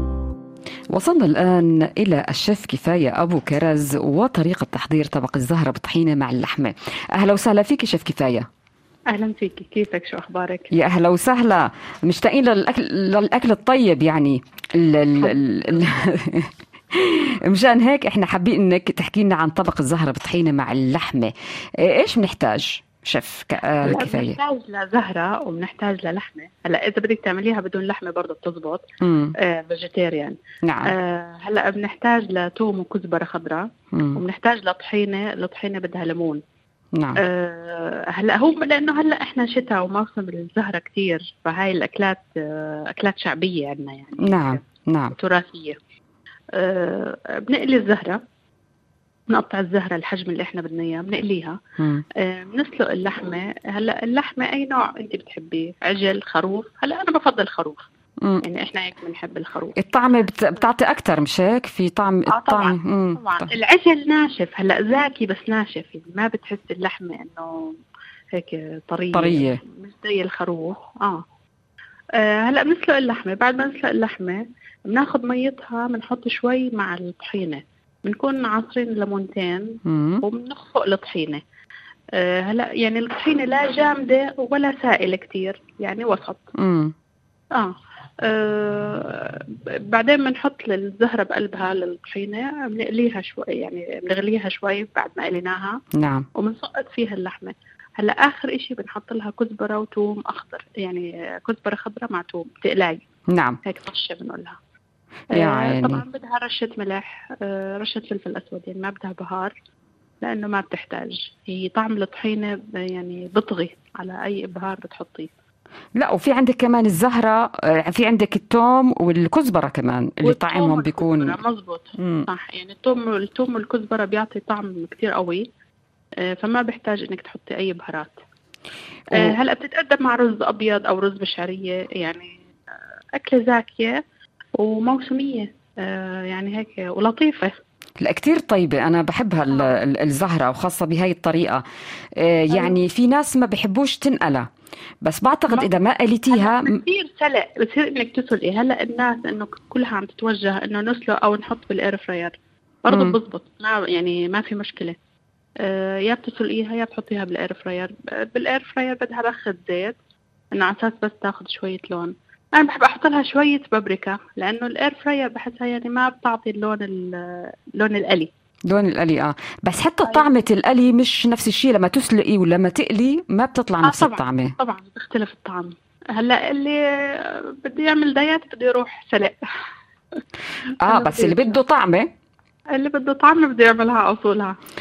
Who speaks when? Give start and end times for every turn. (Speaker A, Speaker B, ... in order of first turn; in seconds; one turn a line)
Speaker A: 0.9-8.5
Speaker B: 9.1-10.7
Speaker A: 10.7-24.4
Speaker B: 23.8-28.8
Speaker A: 29.0-29.3
Speaker B: 29.4-36.4
Speaker A: 30.6-30.9
Speaker A: 33.9-34.2
Speaker B: 37.2-44.6
Speaker A: 44.2-45.2
Speaker B: 45.1-45.8
Speaker B: 46.5-48.2
Speaker B: 49.3-51.6
Speaker A: 51.8-52.0
Speaker B: 52.2-57.9
Speaker B: 58.4-59.8
Speaker A: 59.8-63.5
Speaker B: 62.3-67.7
Speaker B: 68.4-71.2
Speaker A: 69.1-69.6
Speaker B: 72.2-81.4
Speaker A: 79.9-80.2
Speaker B: 82.2-86.5
Speaker A: 86.6-86.9
Speaker B: 87.5-95.8
Speaker A: 96.0-96.3
Speaker B: 96.4-103.0
Speaker A: 103.3-103.6
Speaker B: 103.7-104.6
Speaker A: 105.3-106.0
Speaker B: 105.3-109.5
Speaker B: 110.2-115.3
Speaker A: 116.0-121.4
Speaker B: 120.2-125.5
Speaker A: 122.0-122.3
Speaker B: 126.2-128.2
Speaker A: 129.1-129.4
Speaker B: 129.1-132.5
Speaker B: 133.2-134.0
Speaker B: 134.6-137.6
Speaker A: 138.0-141.6
Speaker B: 139.5-139.8
Speaker A: 142.2-144.5
Speaker B: 142.5-142.8
Speaker A: 145.0-146.8
Speaker B: 146.3-155.0
Speaker A: 152.9-153.2
Speaker B: 155.6-160.0
Speaker B: 160.5-168.3
Speaker A: 168.7-174.6
Speaker B: 173.8-179.4
Speaker B: 180.8-181.6
Speaker A: 180.8-182.1
Speaker B: 182.7-184.6